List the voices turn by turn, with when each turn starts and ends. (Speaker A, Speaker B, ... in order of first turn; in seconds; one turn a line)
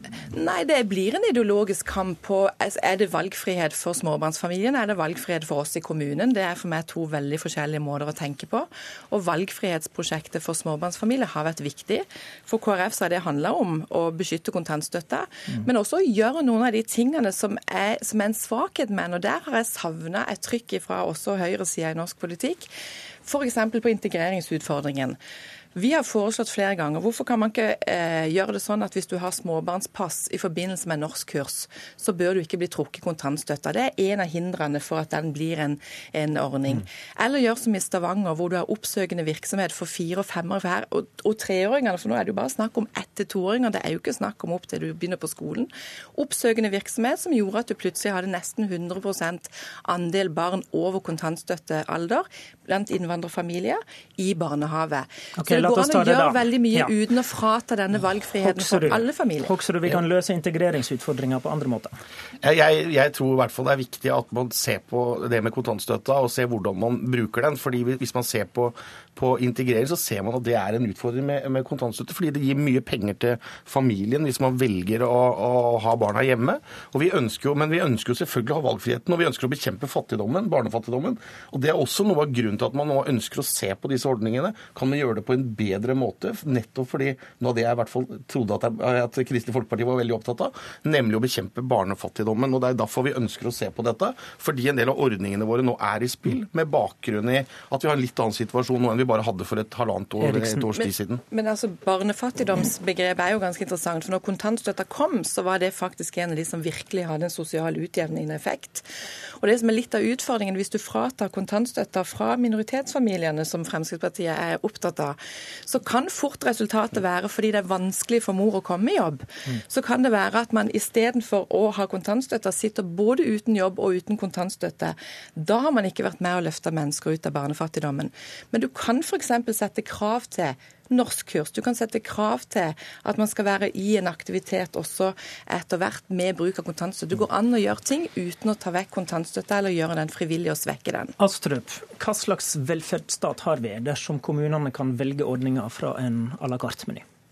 Speaker A: 0.3-22.7
Speaker A: 23.2-25.2
Speaker A: 25.7-59.5
Speaker B: 55.4-56.9
Speaker B: 58.4-62.0
Speaker C: 62.4-101.2
Speaker B: 100.2-100.7
Speaker A: 100.8-108.8
Speaker A: 109.4-115.2
Speaker A: 115.7-141.1
Speaker B: 141.2-147.0